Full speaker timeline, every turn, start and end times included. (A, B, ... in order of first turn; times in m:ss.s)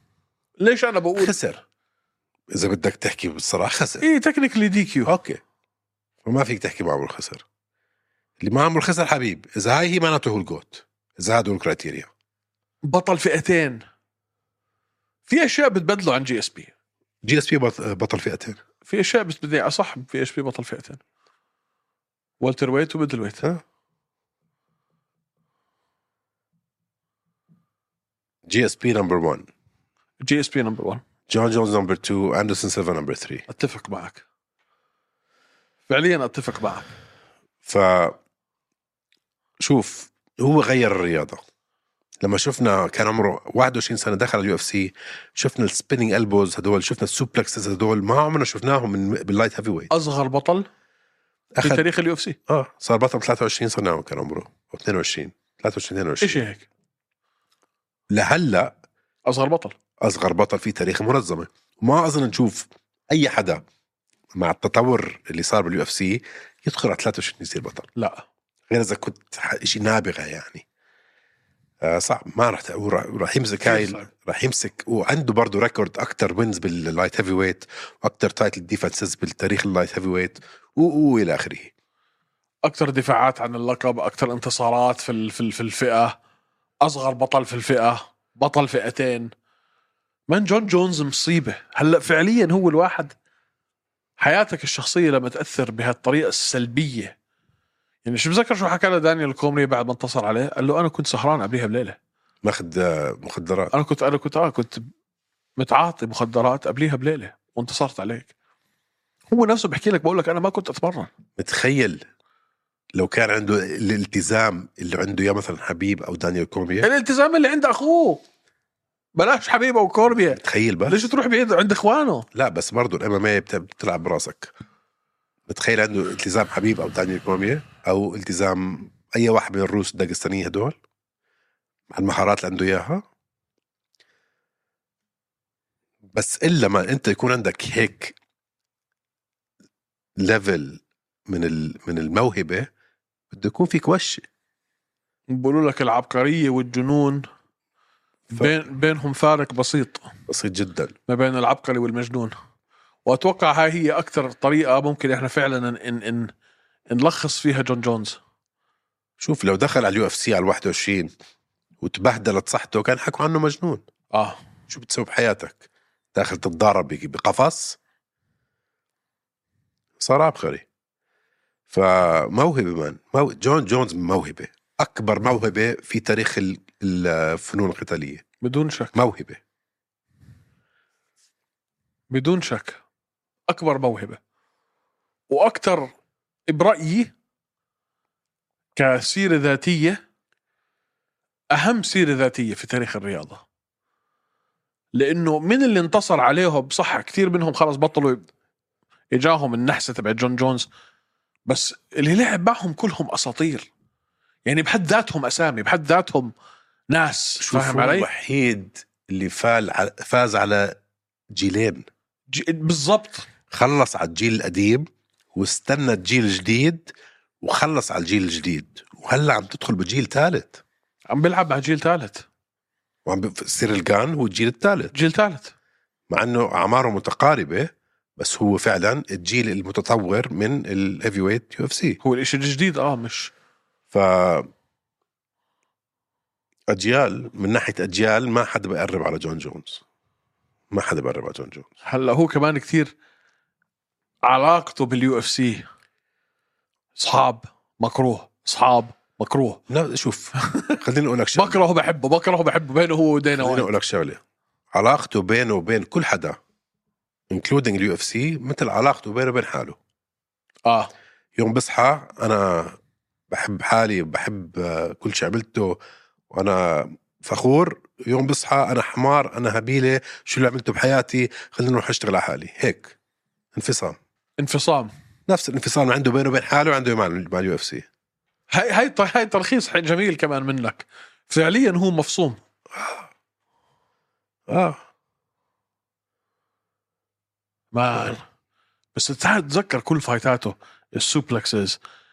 0:00.6-0:01.3 A
0:01.2-0:01.6 B
0:02.5-0:04.1 B
0:04.0-0:05.1 A
0:05.1-0:05.4 B
0:06.2-0:07.4 B
0:08.4-0:12.1 B
0:12.8-0:13.8 A
0:15.3-0:16.7 A
0:17.2-0:18.6 B
0:18.8-0:21.0 A
0:22.4-0:23.4 A
0:28.5-0:29.5 B
0:30.2-0:31.0 A
0:31.3-0:33.4 B
0:33.5-0:34.2 A
0:35.9-0:36.8 A
0:37.6-0:38.2 B
0:39.6-0:41.4 B
0:42.2-0:49.9 B
0:49.9-0:50.7 A
0:51.6-0:51.9 B
0:51.6-0:52.4 A
0:52.5-0:56.4 B
0:56.2-0:56.7 A
0:58.1-0:58.7 B
0:59.2-0:59.7 A
1:00.0-1:03.6 B
1:04.4-1:07.9 B
1:08.0-1:08.2 A
1:08.7-1:10.6 B
1:11.8-1:21.7 B
1:13.7-1:14.0 A
1:22.6-1:26.2 A
1:26.8-1:29.3 A
1:30.3-1:33.2 A
1:34.2-1:37.2 A
1:38.0-1:42.0 A
1:42.4-1:43.7 B
1:43.7-1:44.9 A
1:45.6-1:48.3 A
1:49.3-1:51.1 A
1:51.4-1:52.0 B
1:53.0-1:56.9 B
1:56.8-1:58.2 A
1:59.2-2:02.3 A
2:00.4-2:01.0 B
2:02.3-2:04.5 B
2:05.5-2:10.8 B
2:11.9-2:13.0 B
2:16.1-2:18.2 B
2:20.2-2:22.7 B
2:23.3-2:24.2 B
2:25.3-2:27.3 A
2:28.3-2:28.6 B
2:28.3-2:30.1 A
2:30.3-2:30.9 B
2:31.1-2:32.3 A
2:33.0-2:36.3 A
2:36.9-2:38.2 A
2:39.2-2:41.1 B
2:41.8-2:43.8 B
2:44.1-2:44.4 A
2:44.7-2:47.8 B
2:50.0-2:50.6 B
2:51.7-2:58.2 B
2:58.4-2:58.9 A
2:58.9-2:59.4 B
3:02.1-3:02.8 A
3:03.5-3:04.2 A
3:05.3-3:05.9 A
3:06.5-3:07.1 A
3:08.8-3:10.0 A
3:11.5-3:13.4 A
3:14.9-3:18.3 A
3:19.1-3:20.7 A
3:21.5-3:23.7 A
3:24.5-3:26.3 A
3:26.9-3:28.1 A
3:27.4-3:30.8 B
3:31.3-3:31.9 B
3:32.3-3:33.3 A
3:33.5-3:36.9 B
3:37.4-3:40.6 B
3:41.1-3:42.2 A
3:43.1-3:44.9 B
3:44.9-3:45.5 A
3:46.1-3:52.0 B
3:52.0-3:53.3 A
3:53.9-3:54.5 B
3:56.7-3:59.8 B
4:00.7-4:01.7 B
4:01.8-4:02.9 A
4:04.2-4:05.7 A
4:07.0-4:09.6 A
4:09.7-4:11.6 B
4:10.5-4:10.8 A
4:11.4-4:13.7 A
4:13.4-4:14.2 B
4:14.7-4:16.4 B
4:17.3-4:19.8 B
4:20.7-4:20.9 A
4:21.4-4:22.8 B
4:23.3-4:25.8 B
4:26.3-4:33.0 B
4:33.5-4:34.0 B
4:34.4-4:34.9 A
4:35.3-4:37.9 B
4:38.5-4:42.4 A
4:42.8-4:43.1 B
4:44.5-4:44.8 B
4:47.7-4:48.2 A
4:48.9-4:51.8 A